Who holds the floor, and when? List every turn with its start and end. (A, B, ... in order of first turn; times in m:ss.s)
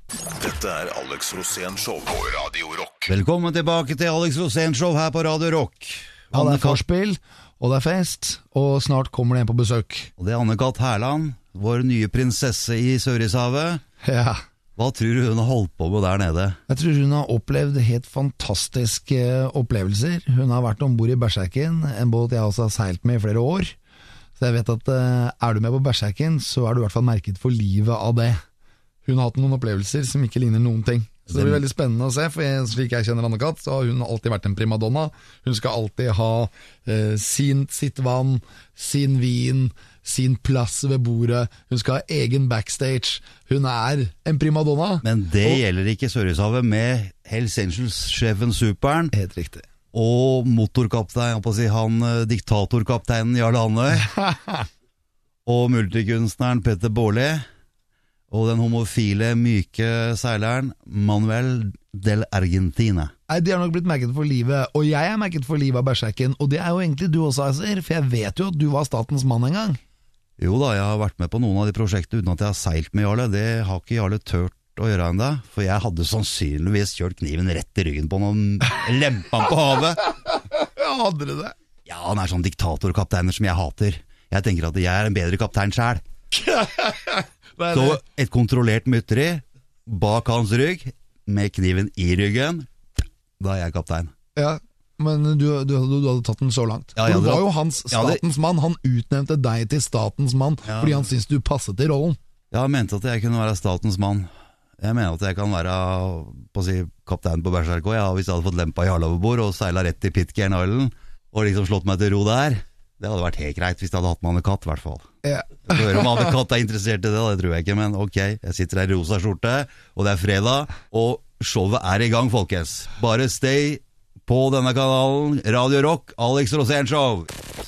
0:00.4-0:03.1 A
0:03.1-0:06.8 B
0:06.3-0:10.1 C
0:10.2-0:13.8 B
0:14.0-0:14.4 C
0:14.8-0:16.6 B
0:16.7-0:23.8 C
0:24.4-0:28.4 C
0:29.0-0:45.6 C
0:31.3-0:31.6 B
0:45.0-0:49.1 B
0:49.1-0:49.7 C
0:49.9-0:54.1 B
0:54.0-0:54.7 C
0:55.5-0:57.4 B
0:58.3-1:03.1 B
1:03.3-1:09.8 C
1:10.4-1:20.0 B
1:20.3-1:21.5 C
1:21.9-1:26.0 B
1:26.3-1:28.0 C
1:27.7-1:34.1 B
1:34.3-1:42.2 C
1:37.0-1:38.2 B
1:40.7-1:41.1 B
1:42.5-1:44.3 B
1:44.8-1:55.1 B
1:55.2-1:56.3 C
1:55.6-2:07.3 B